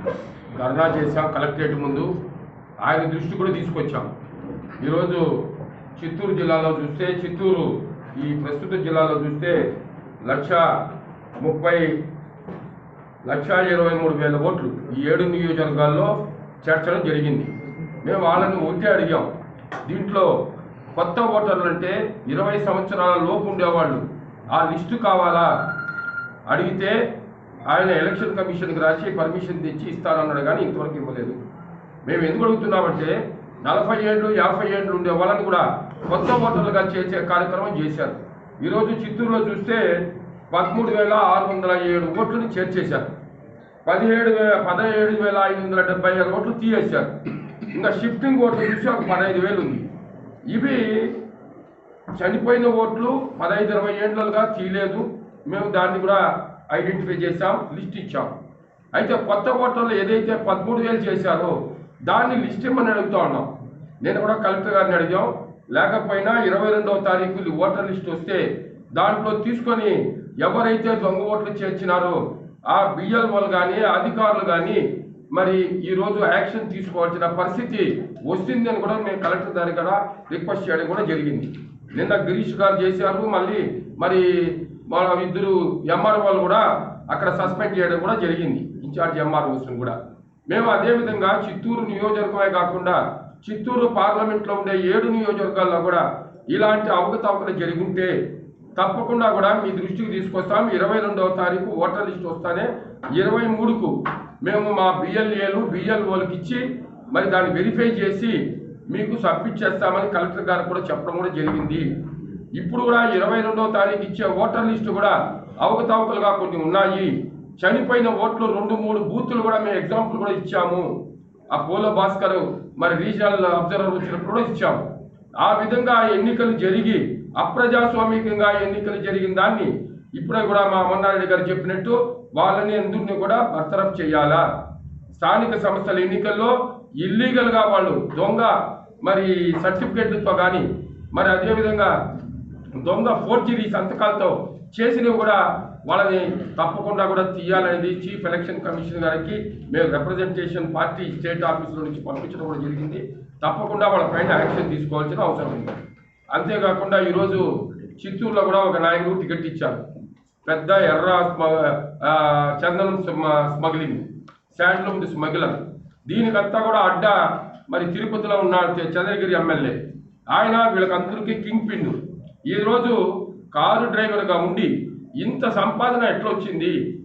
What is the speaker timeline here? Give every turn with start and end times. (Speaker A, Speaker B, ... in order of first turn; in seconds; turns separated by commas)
Speaker A: 0.6-2.1, Speaker A: 2.8-4.1, Speaker A: 4.8-9.7, Speaker A: 10.2-10.9, Speaker A: 11.4-12.0, Speaker A: 13.2-19.3, Speaker A: 19.8-20.4, Speaker A: 20.9-25.5, Speaker A: 26.5-27.0, Speaker A: 27.7-31.4, Speaker A: 32.0-43.1, Speaker A: 43.9-49.9, Speaker A: 50.5-51.2, Speaker A: 52.1-58.3, Speaker A: 58.9-63.5, Speaker A: 64.0-90.0, Speaker A: 90.5-98.2, Speaker A: 98.8-111.9, Speaker A: 112.5-120.9, Speaker A: 121.5-124.8, Speaker A: 125.4-134.5, Speaker A: 135.1-141.9, Speaker A: 142.7-155.8, Speaker A: 156.3-159.8, Speaker A: 160.4-169.8, Speaker A: 170.3-176.8